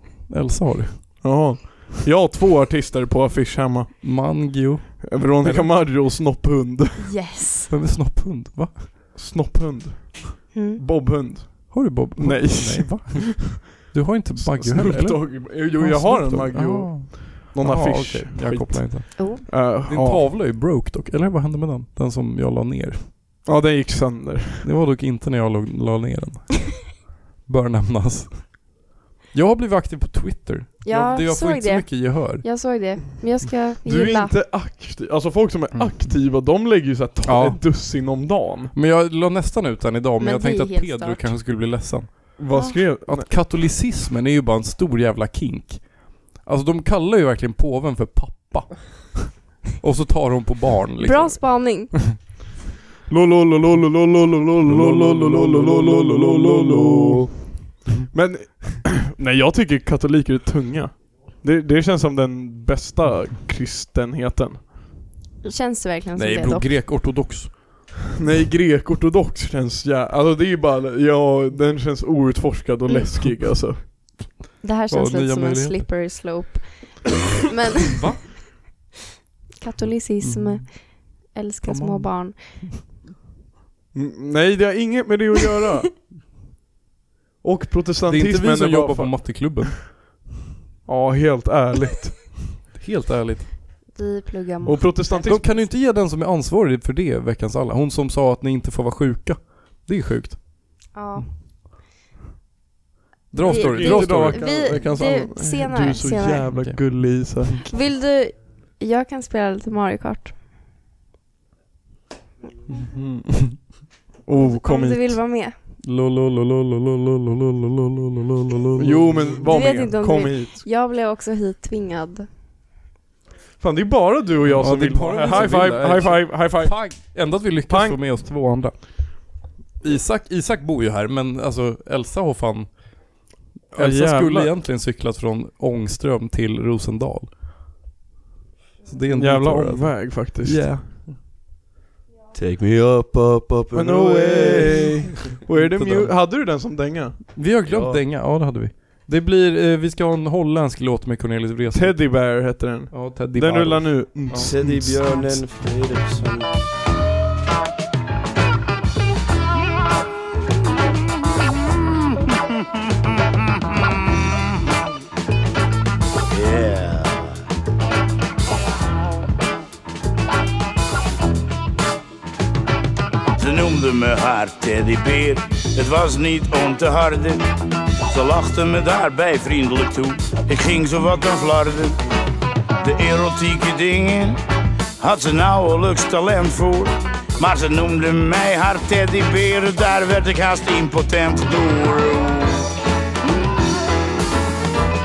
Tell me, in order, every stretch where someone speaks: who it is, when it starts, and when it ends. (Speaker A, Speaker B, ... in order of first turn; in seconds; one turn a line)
Speaker A: 0.3-1.3
Speaker B: 1.2-7.1
Speaker A: 4.0-5.7
Speaker C: 7.1-7.7
Speaker A: 7.7-8.9
Speaker B: 9.1-13.6
Speaker C: 10.5-10.8
Speaker A: 11.7-23.0
Speaker B: 14.4-20.3
Speaker B: 23.4-24.7
Speaker A: 24.6-28.7
Speaker A: 29.3-32.4
Speaker C: 30.8-34.4
Speaker B: 33.8-38.7
Speaker A: 37.2-37.6
Speaker A: 38.7-51.9
Speaker C: 40.2-41.3
Speaker B: 42.4-43.3
Speaker C: 42.5-42.8
Speaker C: 51.0-52.1
Speaker B: 53.1-57.6
Speaker A: 54.6-57.4
Speaker B: 58.1-64.7
Speaker C: 65.4-66.7
Speaker A: 66.2-67.9
Speaker B: 68.2-73.8
Speaker C: 74.6-78.3
Speaker A: 74.9-75.9
Speaker A: 77.9-78.2
Speaker C: 79.6-82.4
Speaker A: 80.2-80.7
Speaker A: 81.6-82.8
Speaker B: 83.9-86.1
Speaker B: 87.4-89.7
Speaker A: 88.1-89.9
Speaker B: 90.8-92.5
Speaker A: 92.7-93.6
Speaker C: 93.9-95.5
Speaker B: 94.6-95.6
Speaker A: 95.1-100.9
Speaker C: 100.9-101.3
Speaker A: 103.3-104.7
Speaker C: 103.4-106.5
Speaker B: 103.4-107.6
Speaker C: 107.7-110.3
Speaker B: 112.9-113.6
Speaker B: 114.2-115.2
Speaker C: 114.4-115.5
Speaker A: 115.8-119.5
Speaker B: 118.8-120.6
Speaker C: 119.4-122.3
Speaker B: 123.6-127.0
Speaker A: 124.4-129.3
Speaker B: 127.7-128.0
Speaker A: 129.8-137.3
Speaker B: 133.7-134.5
Speaker A: 138.8-141.1
Speaker B: 139.1-140.8
Speaker D: 142.3-145.2
Speaker B: 143.7-147.3
Speaker A: 145.5-146.1
Speaker A: 147.3-154.9
Speaker D: 147.6-148.0
Speaker B: 151.7-154.8
Speaker D: 154.3-156.5
Speaker E: 166.3-167.3
Speaker E: 173.4-177.4
Speaker E: 178.1-182.0
Speaker E: 182.8-184.4
Speaker E: 185.0-192.7